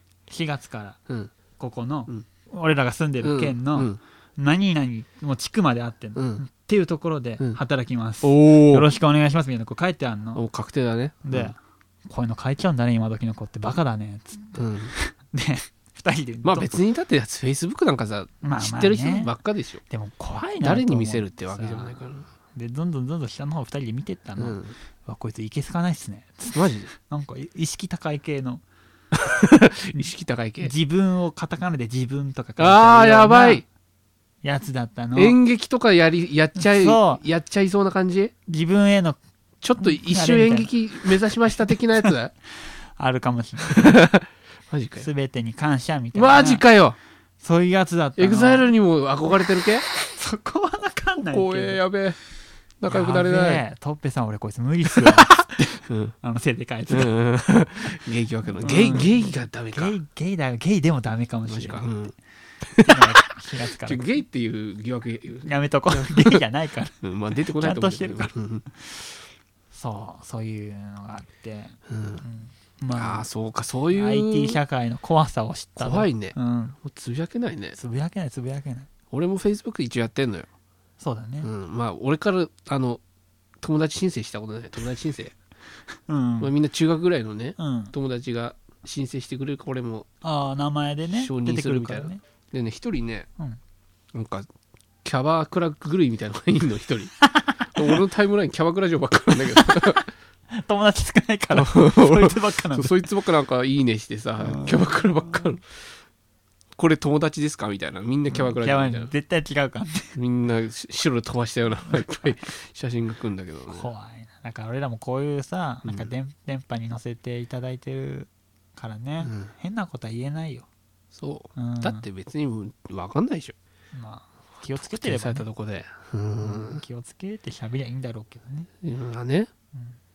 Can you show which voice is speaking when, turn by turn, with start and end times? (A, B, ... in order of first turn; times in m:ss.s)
0:00.3-0:01.0 A
0:01.6-0:10.4 A
0:03.2-0:04.0 B
0:06.1-0:06.4 B
0:08.2-0:08.9 B
0:10.3-0:11.6 B
0:11.2-0:16.8 A
0:14.6-0:14.9 B
0:16.4-0:19.8 B
0:18.4-0:19.3 A
0:19.9-0:22.0 A
0:20.6-0:22.3 B
0:22.5-0:28.6 A
0:24.4-0:24.8 B
0:26.5-0:26.9 B
0:29.1-0:30.7 B
0:30.6-0:33.6 A
0:32.6-0:33.6 B
0:34.4-0:35.4 A
0:35.2-0:38.3 B
0:36.6-0:37.2 A
0:38.5-0:39.2 A
0:39.6-0:42.3 B
0:39.8-0:41.1 A
0:41.7-0:43.9 A
0:43.6-0:45.1 B
0:45.0-0:46.6 A
0:46.1-0:47.0 B
0:47.4-0:48.7 A
0:48.2-0:49.9 B
0:49.6-0:51.8 A
0:51.2-0:52.2 B
0:52.8-0:53.6 B
0:52.9-0:57.1 A
0:54.9-0:56.1 B
0:56.9-0:59.9 B
0:58.6-1:01.9 A
1:01.5-1:03.0 B
1:02.8-1:04.1 A
1:03.7-1:06.4 B
1:05.4-1:07.0 A
1:07.0-1:08.6 B
1:07.6-1:09.0 A
1:09.7-1:13.3 A
1:11.9-1:12.2 B
1:12.9-1:14.6 B
1:13.9-1:16.8 A
1:15.8-1:17.8 B
1:17.8-1:18.9 A
1:19.1-1:20.5 B
1:21.0-1:21.5 A
1:21.4-1:23.0 B
1:23.6-1:25.3 B
1:26.1-1:26.5 A
1:26.4-1:30.1 B
1:27.6-1:27.9 A
1:30.2-1:32.2 A
1:31.1-1:33.3 B
1:34.1-1:34.5 B
1:35.0-1:37.1 B
1:37.2-1:38.0 A
1:37.7-1:40.1 B
1:39.3-1:43.0 A
1:41.5-1:45.8 B
1:44.4-1:44.9 A
1:46.8-1:49.1 B
1:48.3-1:50.1 A
1:50.1-1:53.9 B
1:53.7-2:00.7 A
1:55.8-1:56.1 B
1:59.2-1:59.5 B
2:01.1-2:03.6 B
2:01.6-2:02.0 A
2:03.9-2:05.5 A
2:04.8-2:06.8 B
2:06.4-2:08.7 A
2:08.8-2:09.5 B